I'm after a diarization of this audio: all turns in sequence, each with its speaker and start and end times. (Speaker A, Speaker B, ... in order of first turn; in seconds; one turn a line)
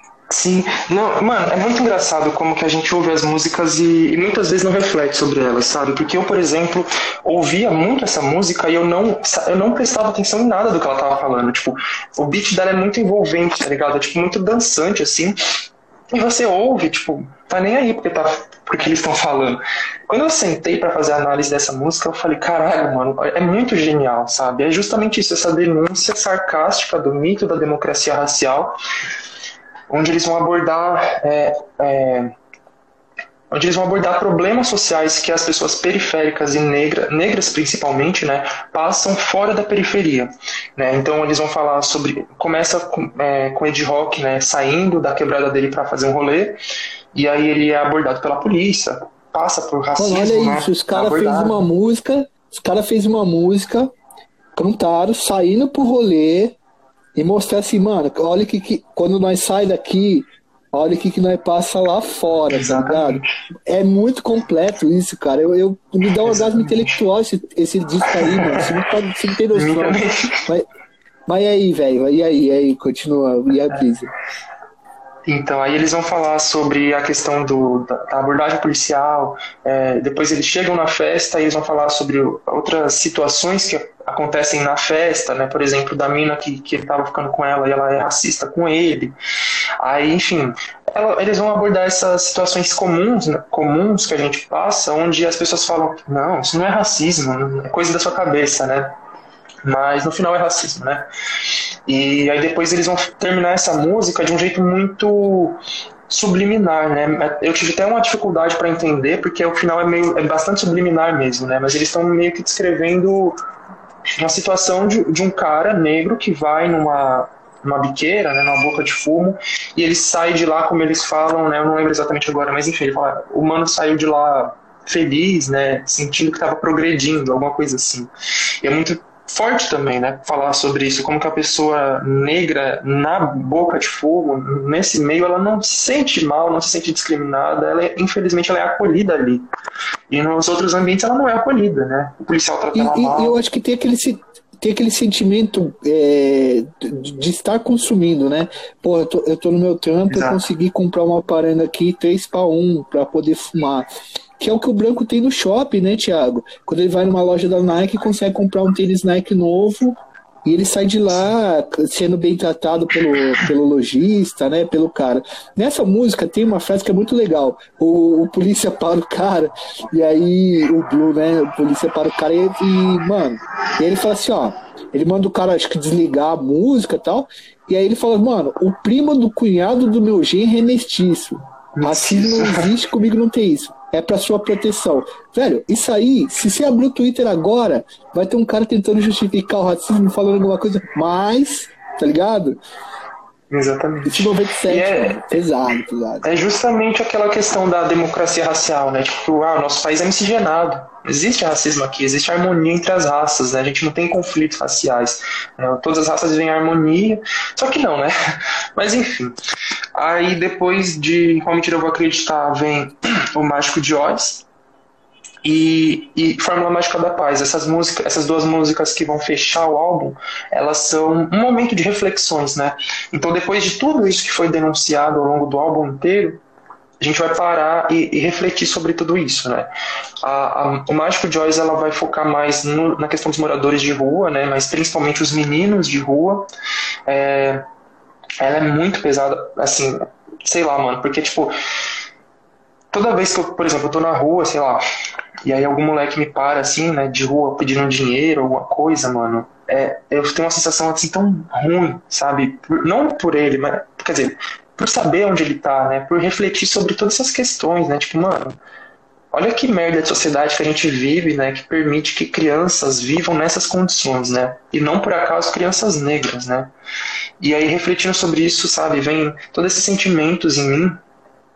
Speaker A: 0.3-15.4
Speaker A: 16.1-28.7
Speaker A: 29.9-32.3
Speaker A: 33.5-46.6
Speaker A: 47.1-51.7
Speaker B: 50.0-53.9
Speaker B: 54.5-56.6
Speaker B: 57.1-70.7
Speaker A: 62.5-63.3
Speaker A: 66.0-67.0
Speaker A: 68.1-68.8
Speaker A: 69.5-70.3
Speaker B: 71.3-74.1
Speaker A: 75.2-89.2
Speaker A: 89.8-99.0
Speaker A: 99.6-113.4
Speaker A: 114.2-128.1
Speaker A: 128.6-139.5
Speaker A: 140.1-143.4
Speaker B: 142.7-153.9
Speaker A: 150.1-150.4
Speaker B: 154.4-192.6
Speaker A: 181.8-182.7
Speaker A: 193.5-195.2
Speaker B: 194.1-196.2
Speaker A: 196.2-208.1
Speaker A: 208.8-209.3
Speaker A: 209.9-214.4
Speaker A: 215.4-226.4
Speaker A: 227.0-229.7
Speaker A: 230.2-236.5
Speaker A: 237.1-237.6
Speaker A: 238.4-241.5
Speaker A: 242.9-244.8
Speaker A: 245.4-258.6
Speaker A: 259.3-266.7
Speaker A: 267.4-271.0